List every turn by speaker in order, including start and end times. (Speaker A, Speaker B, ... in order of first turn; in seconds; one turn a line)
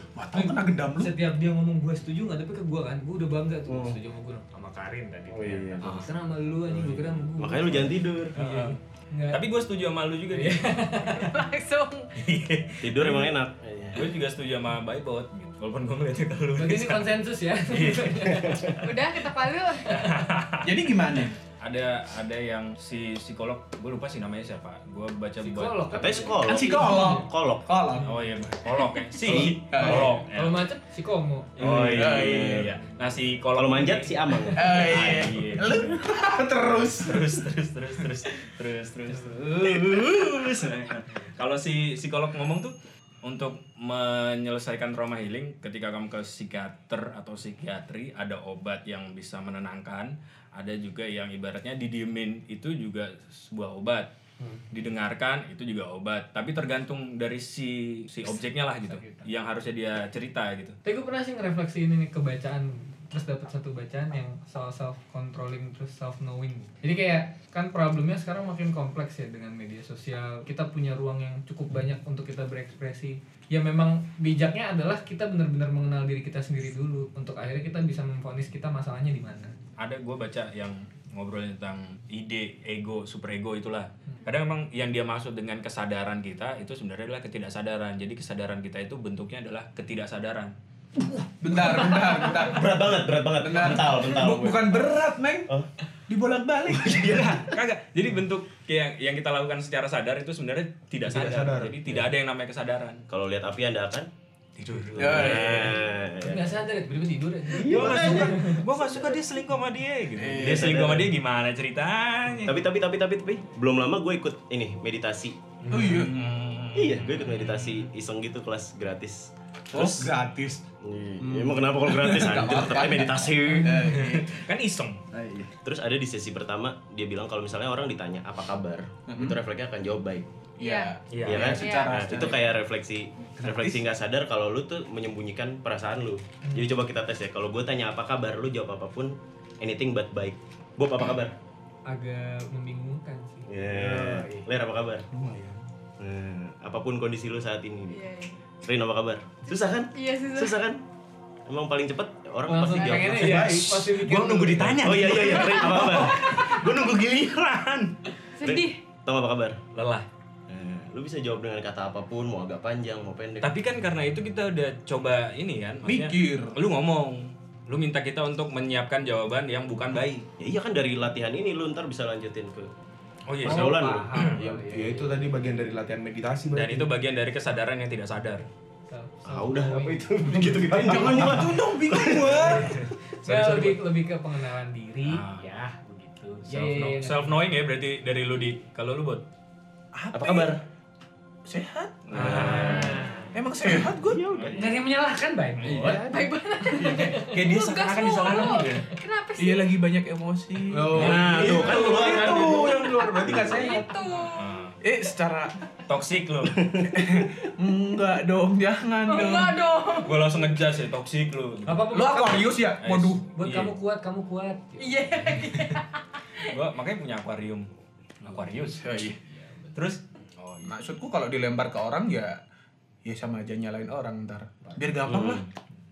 Speaker A: 0.1-1.1
Speaker B: 0.3-4.5
Speaker C: 3.7-4.0
Speaker D: 4.5-6.1
Speaker C: 5.3-6.0
Speaker B: 5.8-9.4
Speaker C: 6.7-8.4
Speaker D: 8.3-8.8
Speaker A: 8.4-8.7
Speaker D: 9.3-11.1
Speaker B: 10.3-11.3
Speaker E: 11.1-12.1
Speaker D: 12.2-13.4
Speaker C: 12.8-14.1
Speaker D: 13.9-17.1
Speaker B: 16.6-18.8
Speaker C: 17.7-18.8
Speaker D: 17.9-18.5
Speaker E: 18.8-20.1
Speaker D: 19.9-20.8
Speaker A: 20.6-21.4
Speaker D: 21.6-26.1
Speaker B: 25.4-27.3
Speaker C: 25.9-27.7
Speaker A: 26.4-28.2
Speaker D: 28.0-30.7
Speaker A: 29.1-30.2
Speaker C: 29.2-29.5
Speaker B: 29.8-31.5
Speaker D: 31.6-36.0
Speaker C: 31.6-32.7
Speaker A: 31.9-32.6
Speaker C: 33.5-35.4
Speaker A: 34.5-37.4
Speaker D: 37.0-54.1
Speaker B: 39.1-39.4
Speaker D: 54.7-60.8
Speaker B: 58.8-59.3
Speaker B: 60.8-79.5
Speaker D: 79.8-90.5
Speaker A: 91.4-92.9
Speaker C: 92.4-95.7
Speaker A: 93.4-95.5
Speaker A: 96.1-97.3
Speaker C: 96.7-97.3
Speaker D: 96.9-103.0
Speaker F: 101.0-101.7
Speaker C: 103.1-104.1
Speaker D: 104.6-105.7
Speaker C: 104.9-106.6
Speaker A: 105.0-105.8
Speaker B: 106.2-108.6
Speaker C: 107.5-108.4
Speaker D: 107.6-112.6
Speaker A: 110.2-110.7
Speaker C: 110.4-111.1
Speaker C: 112.5-115.5
Speaker D: 115.6-117.9
Speaker A: 115.7-116.4
Speaker C: 116.7-120.1
Speaker A: 119.7-120.6
Speaker C: 120.8-123.9
Speaker A: 121.2-124.4
Speaker D: 123.8-125.0
Speaker A: 125.1-125.5
Speaker C: 125.4-130.3
Speaker A: 129.1-129.4
Speaker A: 130.6-132.4
Speaker E: 130.6-132.1
Speaker D: 131.1-131.5
Speaker C: 131.2-141.3
Speaker A: 133.4-133.8
Speaker B: 136.4-136.7
Speaker B: 141.9-143.6
Speaker C: 143.4-145.1
Speaker F: 143.7-144.2
Speaker F: 145.1-145.6
Speaker C: 146.0-148.0
Speaker E: 147.9-148.4
Speaker C: 148.6-150.8
Speaker E: 149.4-150.6
Speaker C: 151.5-153.5
Speaker B: 152.5-154.9
Speaker E: 152.7-153.2
Speaker F: 153.2-153.9
Speaker D: 153.4-157.9
Speaker C: 154.8-156.2
Speaker E: 155.4-156.8
Speaker E: 158.3-158.8
Speaker C: 158.4-159.6
Speaker D: 159.7-160.1
Speaker C: 160.5-163.5
Speaker D: 163.4-170.3
Speaker A: 165.8-166.6
Speaker C: 170.4-172.7
Speaker D: 173.3-174.3
Speaker C: 173.4-174.2
Speaker B: 173.5-175.3
Speaker F: 174.2-176.9
Speaker D: 176.5-178.4
Speaker B: 178.9-181.3
Speaker C: 179.2-182.5
Speaker F: 180.3-181.3
Speaker A: 180.8-182.8
Speaker B: 182.5-185.7
Speaker D: 182.7-183.8
Speaker D: 185.0-189.2
Speaker B: 186.4-187.4
Speaker A: 189.9-190.6
Speaker C: 190.1-190.6
Speaker A: 191.4-194.2
Speaker D: 192.1-193.1
Speaker C: 192.1-192.9
Speaker B: 192.1-193.3
Speaker C: 193.8-194.8
Speaker D: 194.3-194.7
Speaker B: 194.5-196.0
Speaker D: 195.6-195.9
Speaker C: 195.6-196.0
Speaker E: 195.9-199.8
Speaker B: 196.8-197.4
Speaker A: 196.8-198.4
Speaker D: 197.3-198.9
Speaker A: 199.4-203.8
Speaker F: 200.7-203.9
Speaker D: 200.9-202.2
Speaker C: 201.1-201.7
Speaker E: 201.8-204.5
Speaker D: 204.2-204.8
Speaker A: 204.8-205.7
Speaker D: 205.9-206.8
Speaker C: 206.6-206.8
Speaker A: 206.8-209.6
Speaker E: 209.0-210.2
Speaker D: 210.0-211.9
Speaker B: 211.7-212.5
Speaker A: 211.9-213.2
Speaker D: 212.8-213.7
Speaker B: 213.3-215.4
Speaker E: 214.8-216.6
Speaker D: 216.4-219.2
Speaker B: 218.3-219.8
Speaker A: 218.8-219.2
Speaker D: 219.7-220.8
Speaker A: 220.6-222.4
Speaker A: 223.0-225.4
Speaker C: 225.0-225.5